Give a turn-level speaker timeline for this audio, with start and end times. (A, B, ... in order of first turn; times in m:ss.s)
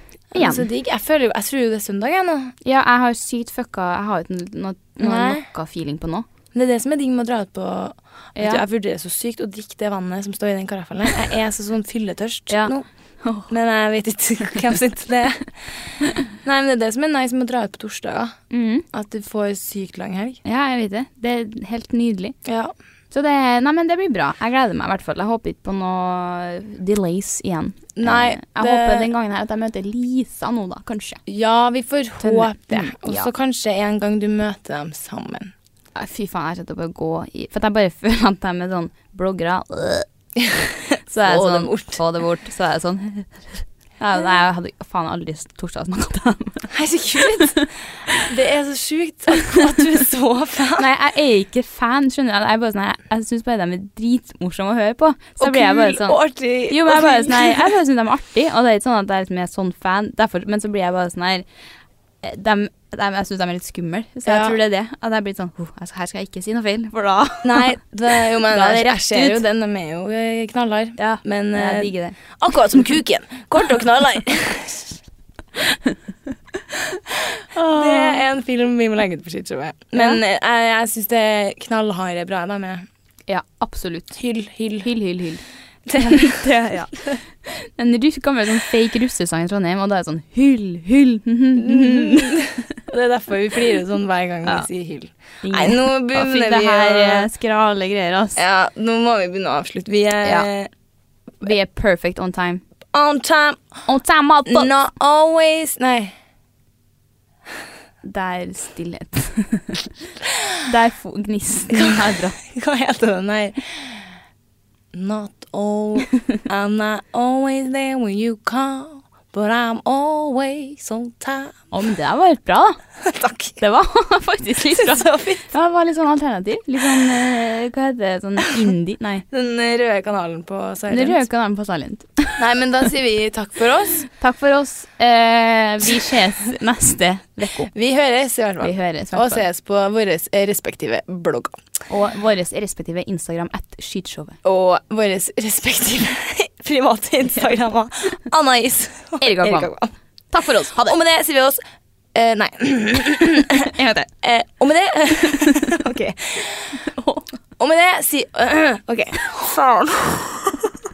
0:00.3-0:02.5 A
0:00.3-0:00.7 B
0:02.6-0:06.3 B
0:05.0-0:05.4 A
0:06.5-0:12.8 A
0:08.4-0:08.6 B
0:12.5-0:13.5 B
0:13.5-0:18.4 A
0:18.5-0:18.8 B
0:18.9-0:20.4 A
0:20.4-0:22.3 B
0:22.4-0:22.7 A
0:23.1-0:31.2 B
0:28.0-0:29.1 A
0:31.3-0:35.5 A
0:32.2-0:33.3 B
0:35.9-0:40.1 B
0:40.4-0:42.0 A
0:41.1-0:47.6 B
0:46.7-0:50.9 A
0:50.8-0:56.2 B
0:55.4-0:57.7 A
0:56.7-1:01.4 B
1:02.2-1:09.4 B
1:04.2-1:04.6 A
1:07.4-1:15.0 A
1:11.0-1:12.2 B
1:15.7-1:16.0 B
1:17.5-1:18.2 B
1:17.6-1:22.8 A
1:19.9-1:20.2 B
1:23.3-1:24.2 B
1:24.2-1:24.9 A
1:24.8-1:25.4 B
1:25.9-1:26.5 A
1:26.0-1:32.6 B
1:31.6-1:37.3 A
1:35.4-1:38.4 B
1:38.4-1:40.7 A
1:41.4-1:42.6 B
1:42.9-1:43.7 A
1:43.9-1:44.7 B
1:44.4-1:46.1 A
1:48.0-1:49.9 B
1:50.6-1:52.4 B
1:51.7-1:54.0 A
1:54.9-2:01.6 A
2:01.7-2:02.8 B
2:03.0-2:03.6 A
2:03.6-2:09.2 B
2:04.7-2:05.5 A
2:09.3-2:11.2 A
2:10.9-2:12.4 B
2:12.4-2:14.1 A
2:14.1-2:17.7 B
2:17.7-2:21.6 A
2:18.6-2:19.4 B
2:21.9-2:24.4 B
2:24.4-2:29.9 A
2:29.2-2:29.7 B
2:30.3-2:31.0 B
2:30.8-2:31.6 A
2:32.1-2:36.8 A
2:33.5-2:34.1 B
2:35.2-2:36.0 B
2:36.7-2:37.3 B
2:37.6-2:40.7 A